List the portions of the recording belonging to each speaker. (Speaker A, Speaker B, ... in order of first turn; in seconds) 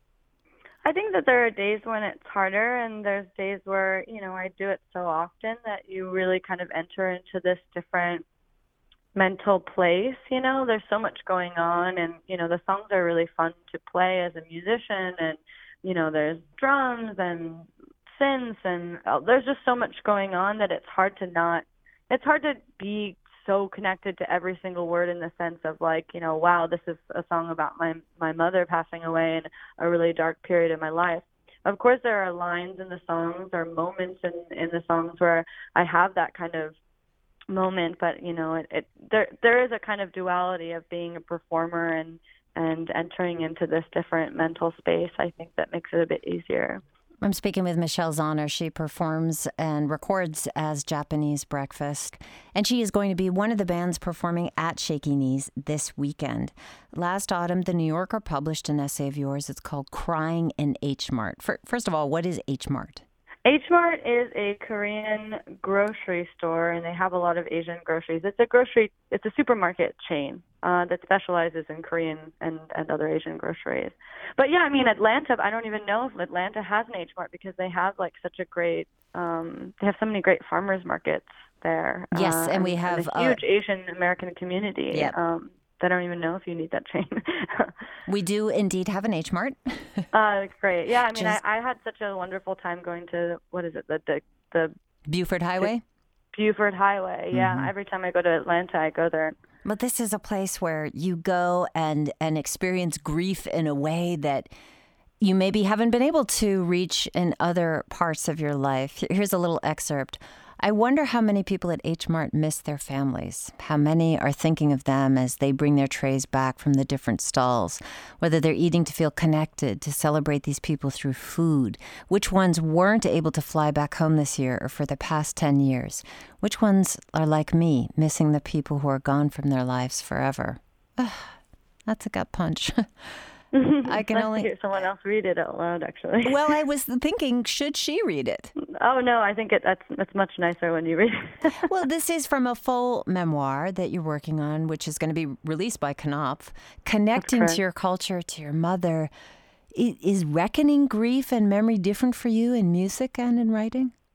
Speaker A: 0.8-8.2, 9.1-36.8, 37.5-46.8, 63.4-87.7, 90.1-94.7, 96.3-99.3, 133.5-136.4, 138.8-141.7, 147.2-147.6
Speaker B: 47.2-63.0, 82.1-83.4, 88.1-90.1, 91.1-91.4, 95.1-95.8, 97.3-97.7, 99.6-104.5, 105.2-131.3, 131.9-132.8, 133.8-134.5, 136.2-138.5, 141.7-149.1, 149.7-153.9